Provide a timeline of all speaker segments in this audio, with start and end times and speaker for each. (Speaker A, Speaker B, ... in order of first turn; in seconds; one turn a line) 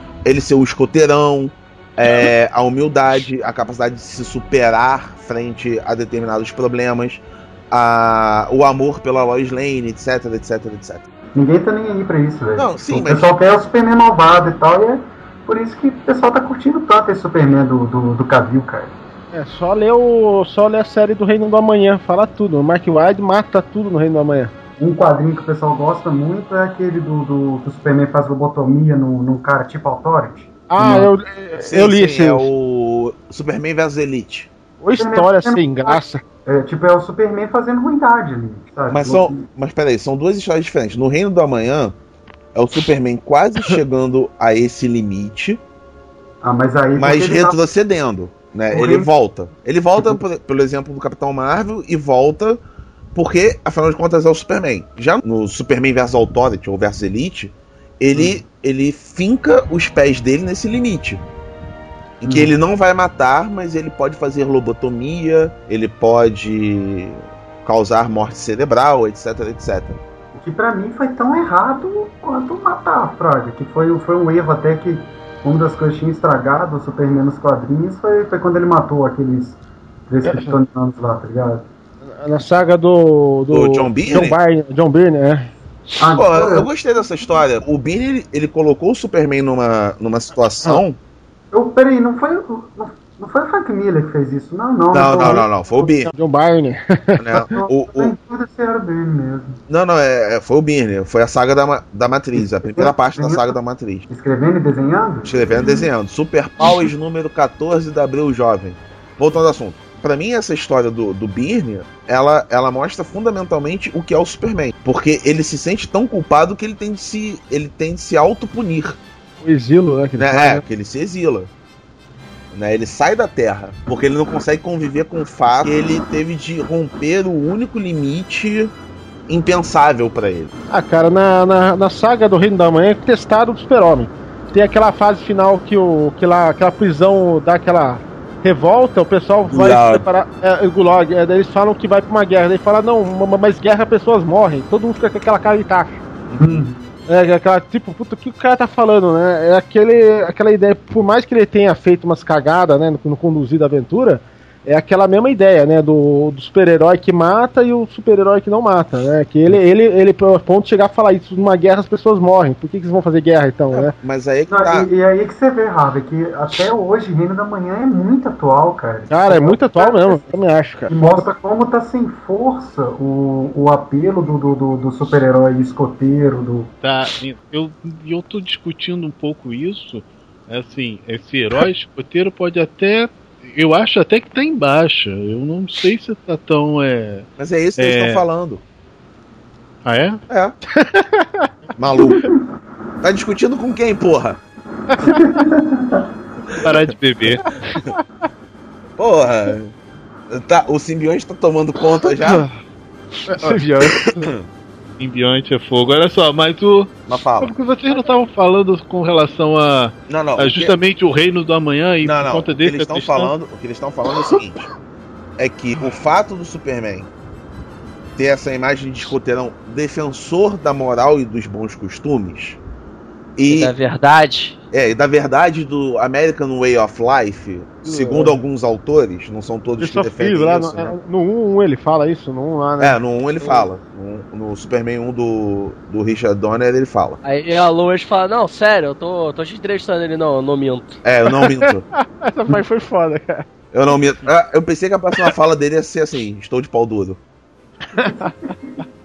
Speaker A: 0.2-11.1
Speaker B: 11.3-18.9
Speaker A: 12.6-13.3
Speaker C: 19.3-24.5
Speaker B: 24.8-30.5
Speaker C: 30.7-32.5
Speaker A: 30.8-34.5
Speaker C: 34.8-36.2
Speaker B: 35.0-39.5
Speaker A: 38.9-42.0
Speaker A: 42.5-45.6
Speaker B: 46.4-47.6
Speaker A: 47.0-52.6
Speaker B: 48.7-49.1
Speaker A: 53.1-61.2
Speaker A: 62.2-70.0
Speaker B: 70.3-81.7
Speaker C: 80.2-80.5
Speaker C: 82.0-85.5
Speaker A: 83.5-84.4
Speaker B: 86.0-86.7
Speaker A: 86.1-91.0
Speaker B: 91.5-95.5
Speaker A: 94.9-96.1
Speaker C: 95.2-97.5
Speaker A: 97.2-98.1
Speaker B: 97.5-99.6
Speaker A: 99.7-104.1
Speaker B: 102.4-103.6
Speaker B: 104.1-105.7
Speaker A: 105.2-119.0
Speaker C: 119.4-120.6
Speaker A: 120.2-121.5
Speaker A: 122.5-128.7
Speaker A: 129.3-130.5
Speaker C: 130.7-146.0
Speaker A: 139.5-140.0
Speaker A: 146.3-146.6
Speaker B: 146.4-146.9
Speaker C: 147.1-163.9
Speaker A: 163.7-164.9
Speaker B: 164.5-176.7
Speaker C: 169.1-171.2
Speaker D: 176.8-188.2
Speaker A: 187.4-188.6
Speaker D: 189.8-190.2
Speaker A: 190.3-190.6
Speaker C: 190.8-191.5
Speaker A: 191.8-192.3
Speaker A: 193.0-194.4
Speaker C: 194.9-195.4
Speaker B: 195.0-196.1
Speaker D: 196.6-197.8
Speaker C: 197.7-198.0
Speaker A: 199.0-199.7
Speaker A: 200.3-202.5
Speaker C: 202.1-202.6
Speaker C: 203.3-204.3
Speaker A: 203.4-204.5
Speaker D: 205.0-213.3
Speaker A: 207.1-207.5
Speaker A: 210.1-210.8
Speaker A: 212.0-214.7
Speaker A: 215.4-217.1
Speaker A: 218.2-222.6
Speaker A: 223.4-223.7
Speaker E: 223.5-224.6
Speaker A: 224.7-230.9
Speaker C: 227.9-228.4
Speaker C: 229.8-233.7
Speaker A: 232.8-237.2
Speaker E: 237.2-241.0
Speaker A: 241.0-241.8
Speaker C: 241.3-243.5
Speaker A: 243.7-247.2
Speaker C: 247.9-248.8
Speaker B: 248.0-248.8